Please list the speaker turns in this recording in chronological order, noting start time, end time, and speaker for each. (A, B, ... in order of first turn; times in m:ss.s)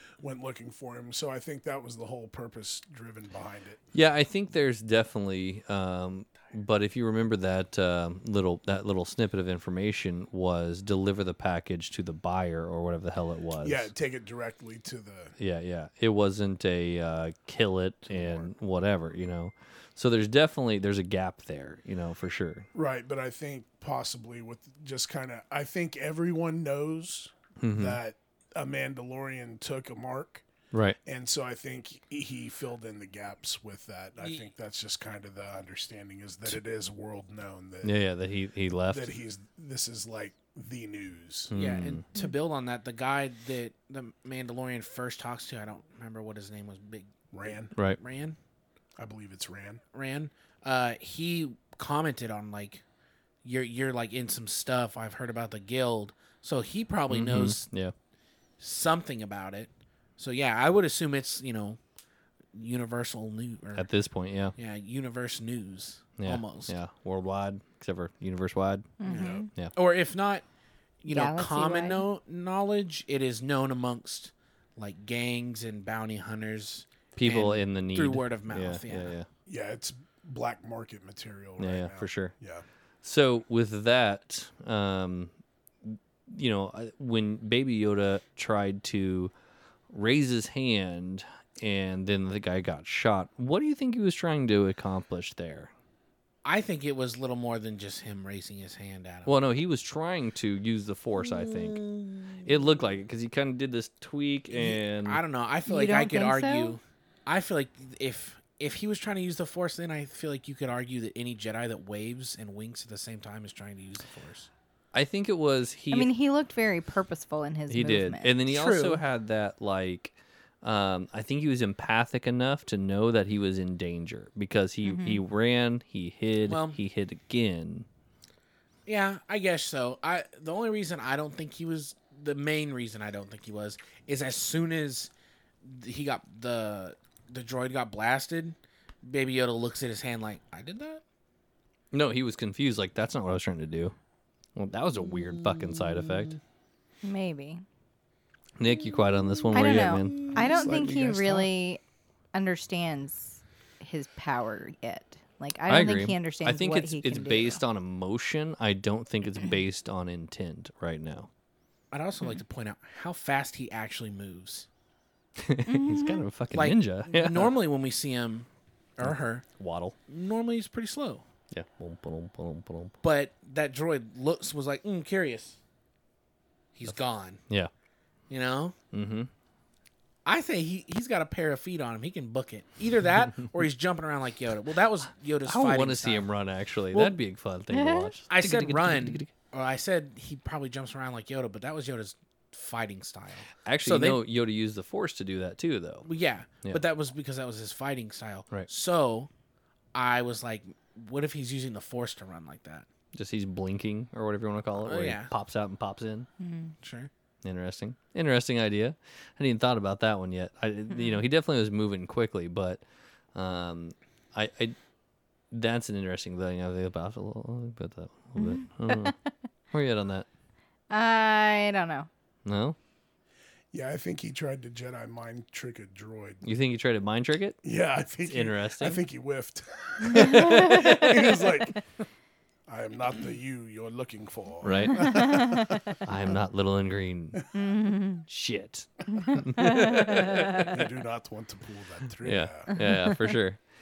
0:00.2-0:03.8 A
0:03.9-0:13.9 B
0:13.6-0:15.4 A
0:15.4-0:22.7 B
0:18.1-0:18.5 A
0:22.7-0:30.4 A
0:27.6-0:28.0 B
0:30.7-0:31.0 B
0:31.0-0:38.0 A
0:37.8-0:39.1 B
0:38.9-0:41.5 A
0:41.5-0:42.0 B
0:41.5-0:48.4 C
0:47.3-0:47.7 A
0:49.0-0:49.8 A
0:49.9-0:52.8 C
0:53.4-0:57.7 C
0:57.1-0:57.9 B
0:58.6-1:01.8 C
1:02.6-1:03.9 C
1:03.8-1:04.6 B
1:04.6-1:06.8 C
1:06.2-1:08.9 B
1:09.0-1:09.5 D
1:09.0-1:10.4 C
1:09.1-1:09.5 A
1:11.0-1:19.2 C
1:11.1-1:12.0 D
1:17.2-1:19.3 B
1:19.5-1:22.6 A
1:21.6-1:22.3 B
1:23.0-1:29.3 B
1:29.9-1:35.7 B
1:36.4-1:39.3 C
1:39.3-1:41.9 B
1:41.4-1:42.4 C
1:42.4-1:45.2 B
1:44.5-1:54.5 C
1:45.7-1:46.8 D
1:54.9-1:56.1 B
1:55.9-1:58.4 D
1:57.7-2:07.9 B
1:58.5-1:59.0 C
2:04.8-2:05.2 D
2:06.5-2:06.8 C
2:08.9-2:15.1 C
2:15.6-2:21.0 C
2:21.9-2:24.0 B
2:24.6-2:26.4 B
2:27.0-2:27.6 D
2:28.6-2:30.3 B
2:29.5-2:31.8 D
2:30.3-2:31.5 A
2:32.3-2:37.6 D
2:35.7-2:41.3 B
2:41.9-2:44.7 C
2:45.4-2:47.5 B
2:45.7-2:46.2 D
2:46.5-2:49.5 C
2:49.0-2:50.0 B
2:50.1-2:51.2 C
2:51.5-2:53.0 B
2:53.0-2:55.6 C
2:56.8-2:57.4 C
2:58.3-2:58.8 C
2:58.9-2:59.3 B
3:00.2-3:06.3 C
3:05.4-3:09.3 B
3:07.7-3:08.1 D
3:08.3-3:14.2 C
3:13.6-3:16.1 B
3:16.0-3:19.3 C
3:19.9-3:22.9 C
3:23.1-3:26.3 B
3:24.8-3:25.3 C
3:26.4-3:26.7 D
3:26.8-3:27.1 C
3:27.4-3:32.8 B
3:30.9-3:31.2 D
3:33.4-3:34.8 B
3:35.5-3:39.1 B
3:38.4-3:39.2 D
3:39.7-3:40.3 B
3:40.9-3:42.1 D
3:42.4-3:42.8 B
3:43.7-3:46.4 A
3:46.4-3:47.6 B
3:47.6-3:51.8 A
3:48.2-3:49.0 B
3:50.4-3:51.4 D
3:50.6-3:51.0 B
3:52.7-3:55.8 A
3:54.6-3:55.5 B
3:54.9-3:55.8 D
3:56.0-3:57.4 B
3:57.5-3:58.2 D
3:58.3-4:00.8 B
3:59.2-4:00.7 D
4:00.7-4:02.7 A
4:02.2-4:03.6 B
4:02.8-4:03.3 D